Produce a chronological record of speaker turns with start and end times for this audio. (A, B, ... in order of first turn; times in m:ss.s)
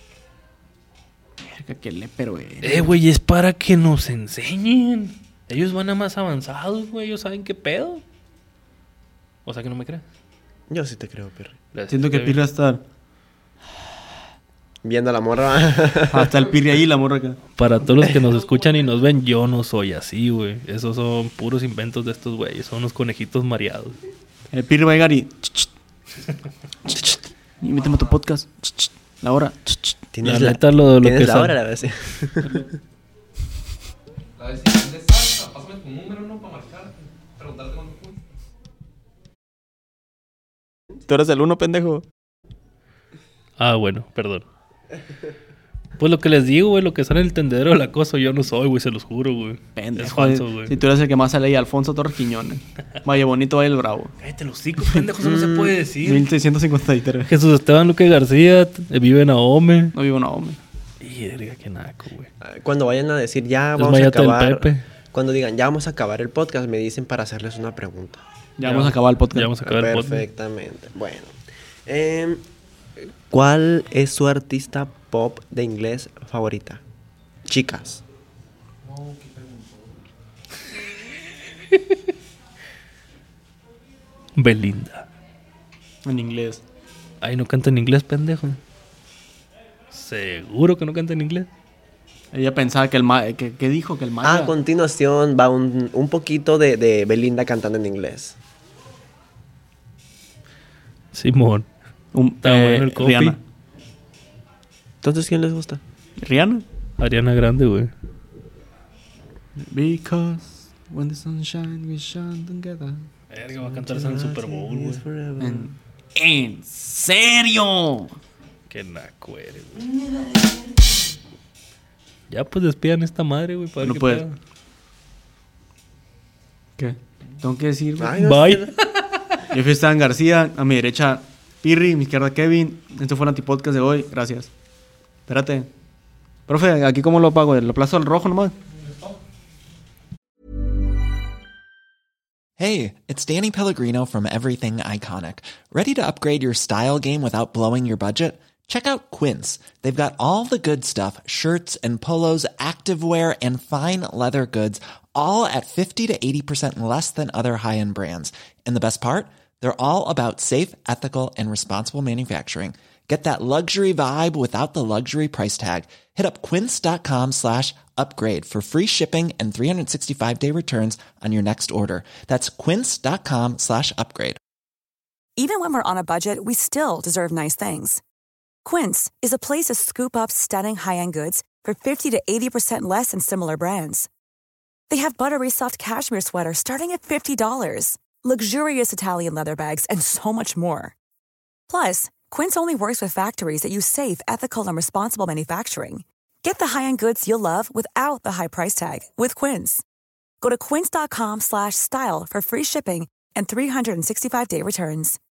0:01.4-0:02.9 A
0:02.6-0:08.0 B
0:09.4-0:10.0 B
0:10.7-0:11.6 C
0:11.7-0:12.4 B
0:11.9-0:12.8 A
0:14.8-0:16.3 C
0:16.1-0:17.4 A
0:17.6-0:24.0 B
0:18.4-0:18.7 D
0:24.5-0:25.7 A
0:26.9-0:30.0 A
0:27.8-0:28.2 D
0:30.1-0:32.7 C
0:30.2-0:31.6 B
0:34.4-0:38.2 D
0:41.1-0:42.0 A
0:43.6-0:44.5 B
0:46.0-0:50.8 B
0:49.8-0:54.1 A
0:54.2-0:56.3 B
0:55.2-0:55.7 C
0:56.0-0:57.3 A
0:57.3-0:59.9 B
0:59.9-1:00.6 A
1:01.0-1:02.3 B
1:02.4-1:08.2 C
1:03.8-1:04.8 B
1:08.6-1:09.6 A
1:08.6-1:10.3 B
1:09.6-1:11.3 C
1:11.9-1:12.4 C
1:13.3-1:16.8 C
1:17.5-1:18.0 C
1:18.8-1:20.0 D
1:21.7-1:22.0 B
1:24.4-1:25.1 B
1:26.0-1:26.6 A
1:27.2-1:28.6 B
1:29.9-1:31.5 B
1:32.3-1:34.5 A
1:34.2-1:38.4 C
1:41.1-1:41.7 B
1:42.1-1:43.4 A
1:42.4-1:43.4 B
1:45.0-1:45.8 C
1:46.2-1:46.6 A
1:47.0-1:47.9 B
1:49.6-1:53.1 A
1:53.3-1:55.0 B
1:53.6-1:55.7 C
1:55.4-1:58.2 A
1:58.7-1:59.9 B
2:02.3-2:04.4 B
2:03.8-2:04.2 A
2:06.8-2:08.3 A
2:08.0-2:08.6 C
2:08.2-2:09.4 B
2:09.5-2:14.5 A
2:15.3-2:15.7 A
2:16.5-2:18.5 A
2:22.6-2:54.4 E
2:55.4-2:58.0 F
2:58.6-3:04.1 F
3:04.9-3:10.9 F
3:11.7-3:19.8 F
3:20.4-3:25.2 F